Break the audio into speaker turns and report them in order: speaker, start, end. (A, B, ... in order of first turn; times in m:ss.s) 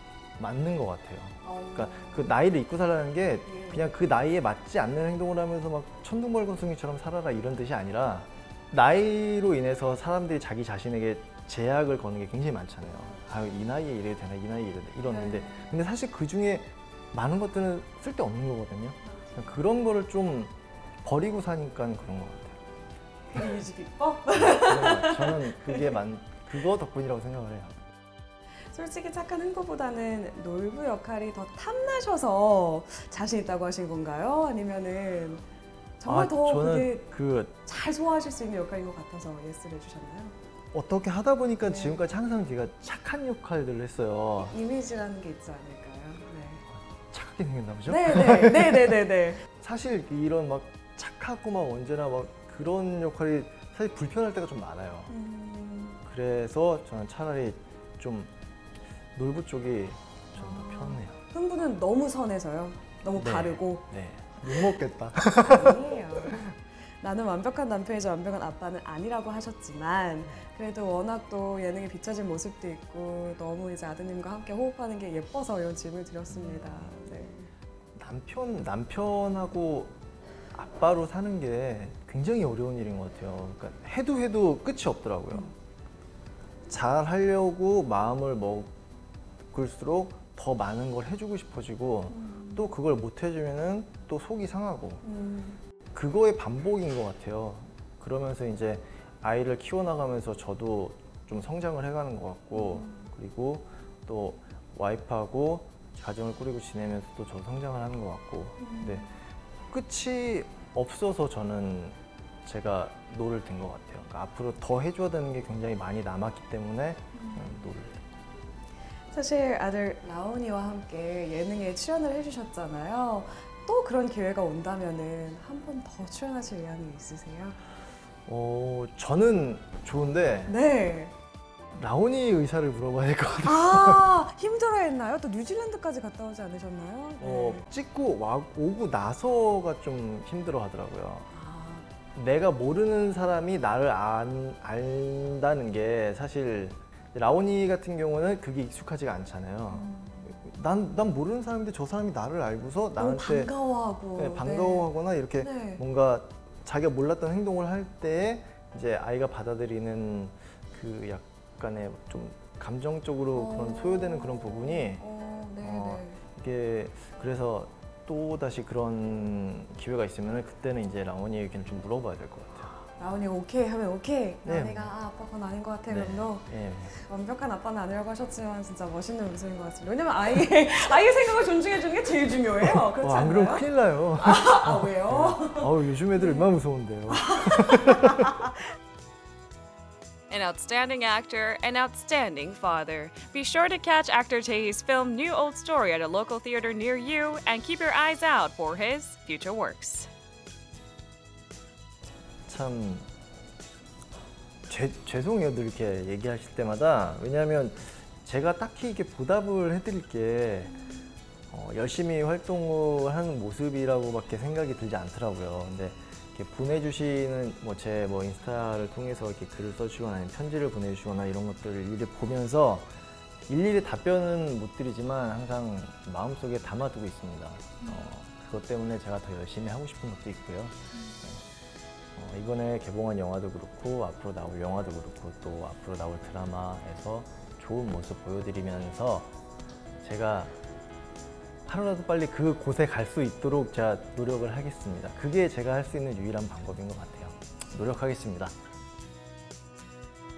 0:00.4-0:20.5 A
0:01.4-0:02.3 B
0:03.5-0:03.9 B
0:15.0-0:15.8 B
0:21.0-0:22.6 A
0:23.3-0:25.9 B
0:24.3-0:27.7 A
0:28.7-0:35.4 B
0:36.0-0:37.1 B
0:36.0-0:37.5 A
0:37.6-0:40.3 B
0:40.7-0:44.5 A
0:41.6-0:42.0 B
0:44.4-0:46.6 B
0:47.1-0:55.1 A
0:47.9-0:49.4 B
0:55.1-0:56.0 B
0:56.0-0:58.3 A
0:59.1-1:01.2 A
1:00.4-1:03.8 B
1:03.2-1:06.5 A
1:05.4-1:17.5 B
1:16.3-1:16.9 A
1:18.0-1:19.9 A
1:20.5-1:25.5 A
1:26.7-1:28.7 A
1:29.5-1:35.0 A
1:32.1-1:32.7 B
1:35.0-1:35.6 B
1:35.9-1:49.0 A
1:42.5-1:43.0 B
1:48.6-1:49.1 B
1:49.7-1:58.0 A
1:57.1-1:57.7 B
1:59.1-2:07.6 B
2:08.2-2:10.6 A
2:10.5-2:11.1 B
2:11.7-2:14.1 A
2:13.4-2:17.6 B
2:17.2-2:21.3 A
2:21.3-2:21.8 B
2:22.1-2:33.5 A
2:29.7-2:30.4 B
2:33.0-2:35.8 B
2:34.2-2:45.0 A
2:43.3-2:46.2 B
2:45.6-2:52.7 A
2:52.8-3:03.7 B
2:54.4-2:54.9 A
2:55.9-2:56.9 A
3:02.6-3:08.3 A
3:04.2-3:06.4 B
3:07.1-3:08.6 B
3:10.3-3:20.1 C
3:10.6-3:11.3 B
3:11.8-3:12.4 B
3:22.5-3:23.1 A
3:24.7-3:30.8 A
3:31.5-3:42.9 A
3:43.5-3:51.4 A
3:52.2-3:59.3 A
4:00.0-4:00.5 A
4:01.6-4:08.5 A